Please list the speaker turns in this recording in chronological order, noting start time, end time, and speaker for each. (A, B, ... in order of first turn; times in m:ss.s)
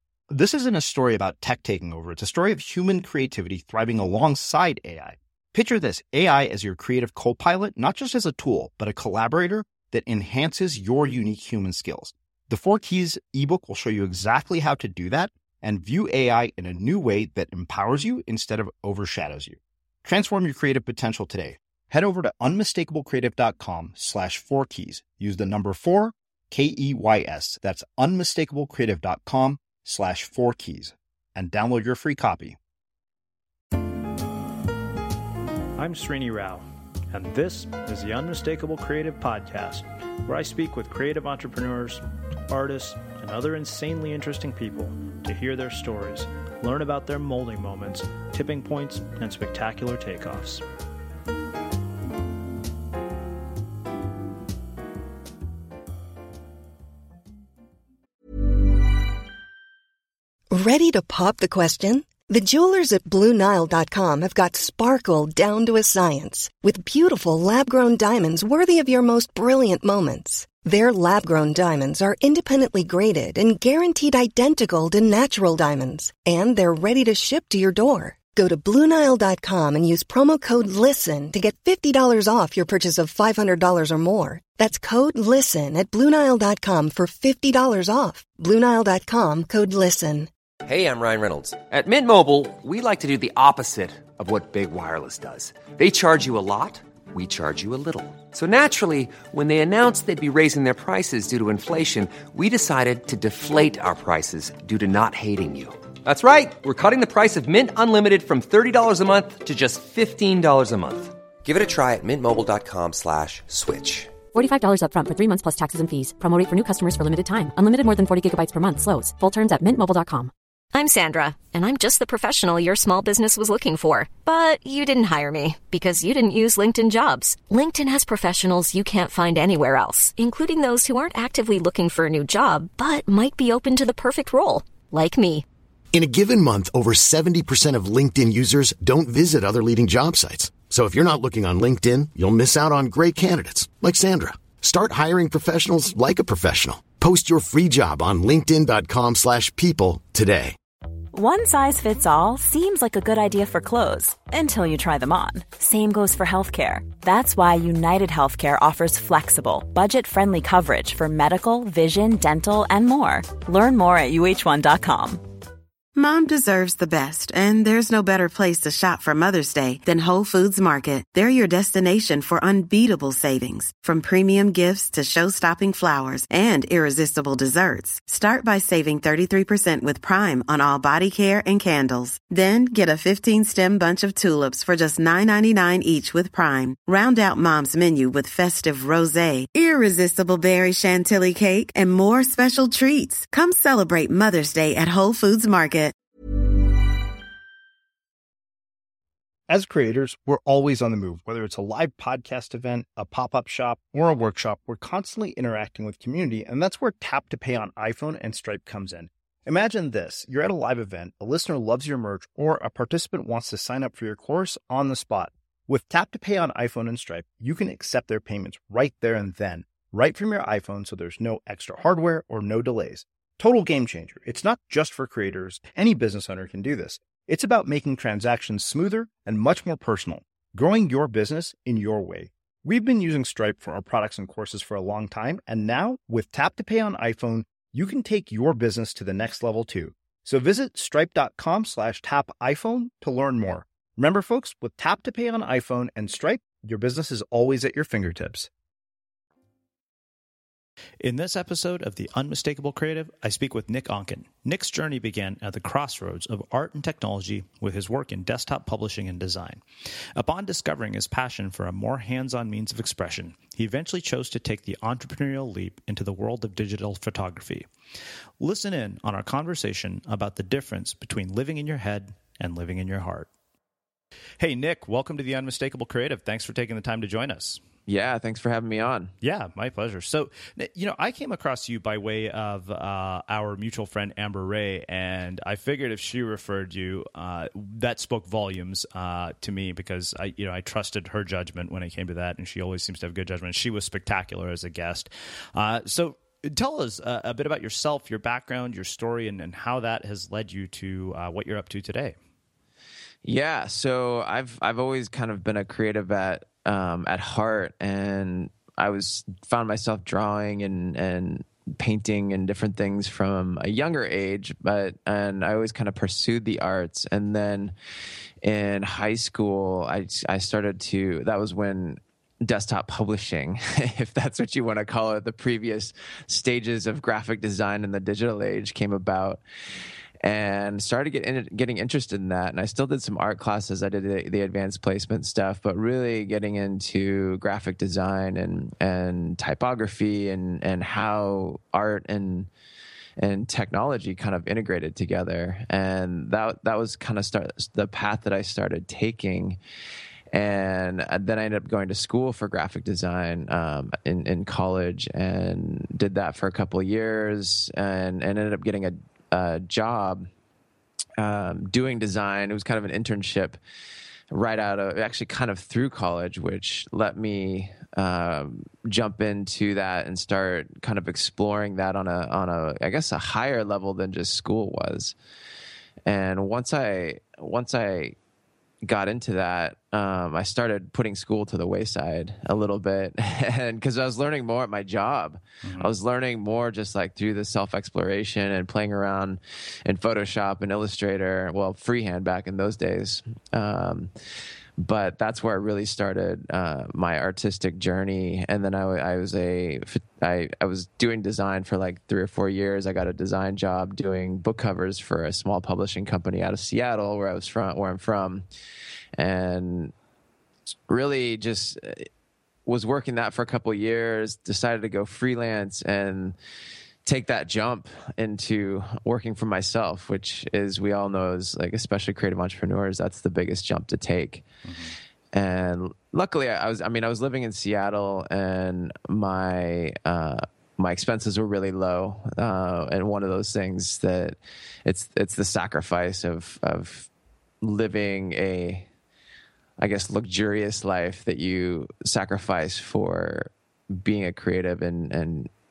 0:00.3-0:32.6 A
0:35.8-0:50.6 B
1:00.5-1:30.3 C
1:30.6-1:54.2 D
1:54.3-2:00.3 E
2:00.7-2:15.4 F
2:15.9-2:30.6 G
2:31.1-2:45.2 H
2:46.0-3:15.9 I
3:19.5-4:08.5 A
4:11.0-4:19.6 B
4:20.2-4:27.6 B
4:28.4-4:33.3 B
4:34.4-4:37.6 B
4:37.9-4:39.1 J
4:39.2-5:02.2 B
5:03.2-5:17.7 J
5:18.4-5:29.4 J
5:30.2-5:42.5 J
5:43.2-5:49.6 J
5:50.3-6:00.3 J
6:01.2-6:03.6 J
6:04.3-6:15.1 J
6:16.0-6:18.2 J
6:18.8-6:34.1 J
6:25.6-6:25.9 B
6:34.8-6:48.4 J
6:49.2-6:49.9 J
6:50.9-6:52.1 J
6:52.6-6:56.4 J
6:57.0-7:04.4 J
7:04.6-7:04.9 B
7:05.3-7:17.1 J
7:17.6-7:18.9 J
7:19.8-7:25.5 J